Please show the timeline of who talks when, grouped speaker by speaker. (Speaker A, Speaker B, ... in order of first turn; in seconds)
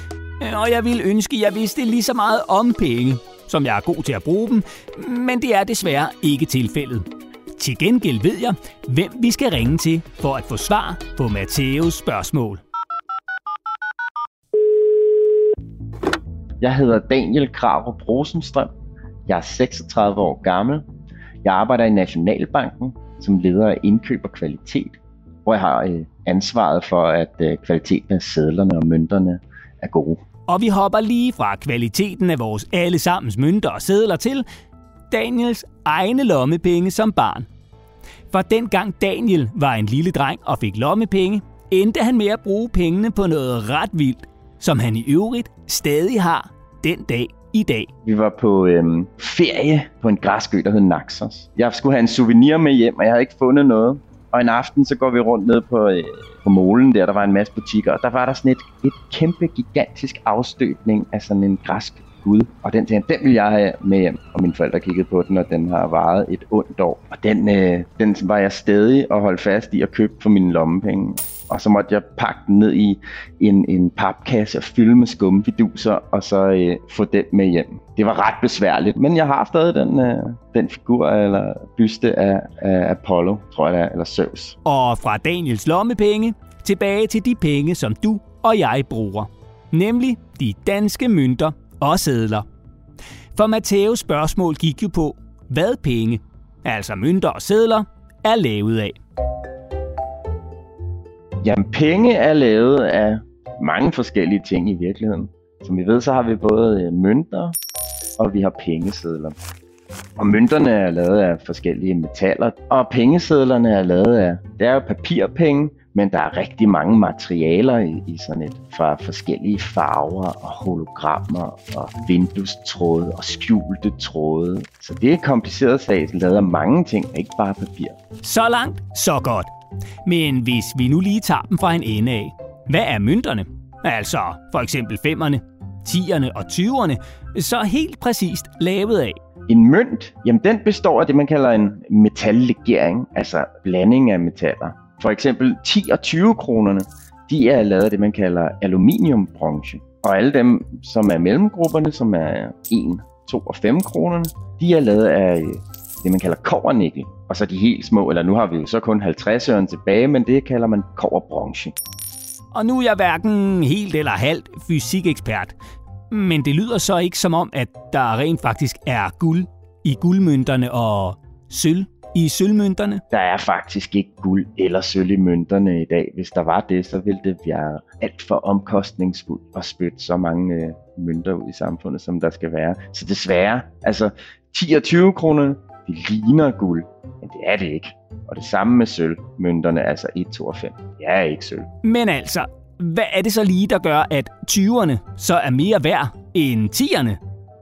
Speaker A: 0.4-12.6, 30.5-34.4, 35.1-37.5, 38.3-47.9, 84.6-92.5, 93.3-99.0, 128.2-129.5, 130.0-139.2, 162.5-165.6, 166.1-173.0, 191.8-197.2
Speaker B: 16.6-18.7, 19.3-20.8, 21.4-30.2, 48.0-84.6, 101.4-107.5, 108.2-109.3, 110.2-128.0, 139.5-161.8, 173.1-191.7